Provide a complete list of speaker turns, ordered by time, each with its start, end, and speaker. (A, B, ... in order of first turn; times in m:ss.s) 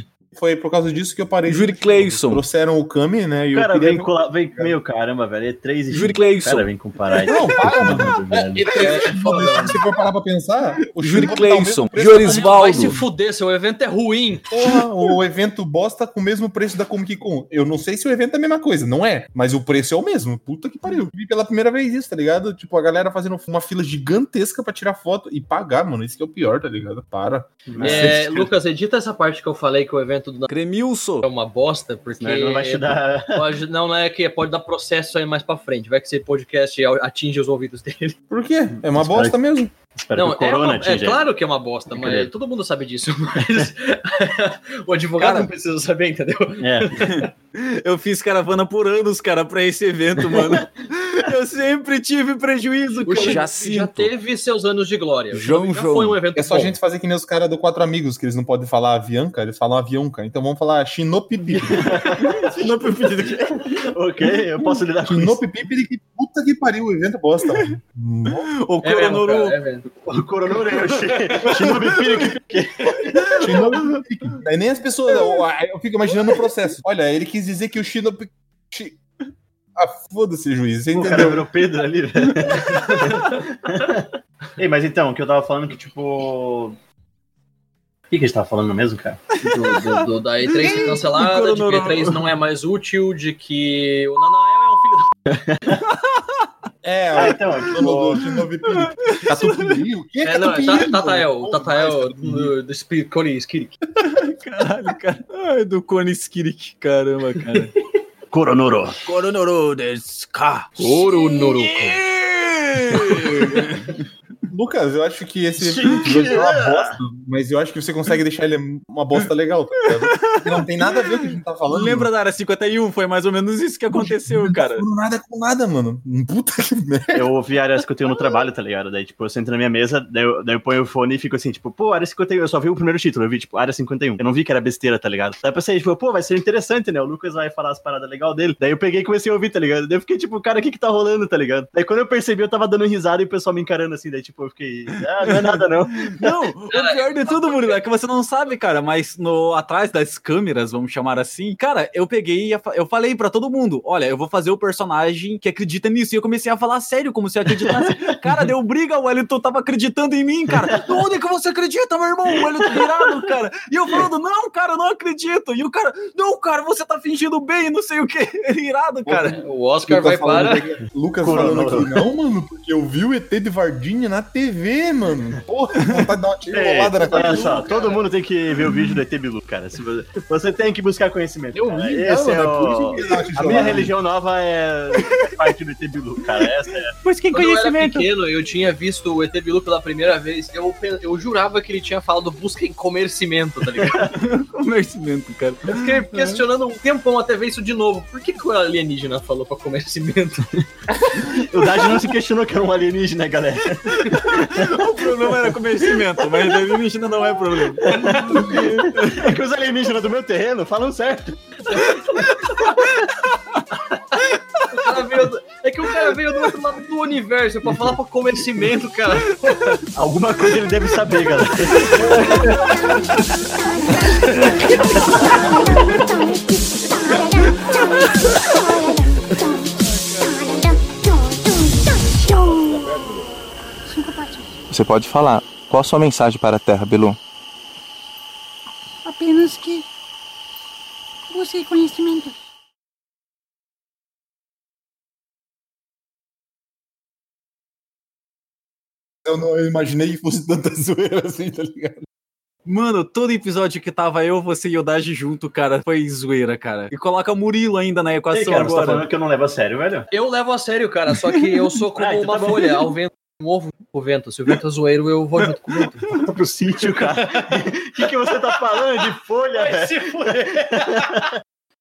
0:00.3-0:04.8 A
0:01.5-0:02.4 B
0:03.5-0:08.7 C
0:05.9-0:06.7 B
0:07.2-0:12.8 A
0:07.3-0:07.6 B
0:08.7-0:09.8 D
0:11.0-0:13.0 B
0:12.2-0:14.5 D
0:14.5-0:28.5 A
0:27.7-0:28.2 C
0:27.8-0:30.5 D
0:30.5-0:31.3 B
0:31.2-0:38.2 D
0:32.2-0:33.6 C
0:38.3-0:39.7 A
0:38.9-0:39.4 C
0:40.0-0:41.3 C
0:40.2-0:47.3 D
0:41.9-0:42.3 C
0:43.4-0:43.7 C
0:45.2-0:45.5 B
0:46.6-0:47.0 C
0:47.0-0:54.2 B
0:53.0-0:56.8 D
0:55.3-0:56.2 B
0:56.4-1:02.2 A
1:01.6-1:02.4 C
1:02.2-1:03.8 B
1:03.2-1:05.4 C
1:05.0-1:08.5 A
1:08.5-1:09.6 B
1:08.8-1:09.9 D
1:10.0-1:13.6 C
1:11.5-1:12.3 B
1:13.0-1:13.4 B
1:13.4-1:19.0 A
1:19.8-1:21.5 A
1:20.9-1:26.8 C
1:22.4-1:22.9 B
1:28.1-1:29.2 C
1:29.4-1:35.1 D
1:29.4-1:32.2 B
1:35.3-1:35.8 C
1:35.9-1:36.4 B
1:36.8-1:42.5 A
1:37.2-1:38.2 C
1:38.7-1:39.8 B
1:40.2-1:43.8 D
1:44.0-1:47.7 B
1:48.3-1:49.0 C
1:49.0-1:54.0 B
1:50.8-1:52.0 D
1:53.1-1:53.3 C
1:54.5-2:02.1 A
1:55.6-1:57.0 C
1:59.9-2:04.8 B
2:04.0-2:07.3 A
2:07.1-2:26.3 C
2:25.3-2:49.4 B
2:26.7-2:27.8 D
2:49.1-2:57.7 A
2:49.4-2:50.7 D
2:51.2-2:52.0 C
2:55.8-2:56.1 B
2:56.5-3:06.9 C
2:56.5-2:58.0 D
3:01.7-3:03.9 A
3:05.0-3:05.3 B
3:07.0-3:08.1 B
3:07.3-3:14.2 D
3:14.1-3:16.4 B
3:15.7-3:20.5 D
3:21.1-3:26.6 C
3:23.9-3:29.3 B
3:27.8-3:32.3 C
3:27.9-3:28.7 D
3:31.7-3:33.6 B
3:31.8-3:32.7 D
3:34.2-3:35.2 B
3:34.7-3:39.8 D
3:36.0-3:36.5 B
3:39.4-3:39.8 B
3:40.0-3:42.5 C
3:41.7-3:42.6 B
3:42.0-3:42.5 D
3:42.4-3:53.3 E
3:44.3-3:44.6 D
3:54.7-3:57.2 F
3:59.1-3:59.6 E
4:01.4-4:01.8 E
4:09.2-4:12.0 A
4:12.7-4:19.1 B
4:18.3-4:20.1 C
4:20.1-4:26.2 D
4:22.0-4:22.8 C
4:26.1-4:31.3 C
4:26.9-4:27.5 D
4:28.8-4:29.0 D
4:29.5-4:31.3 D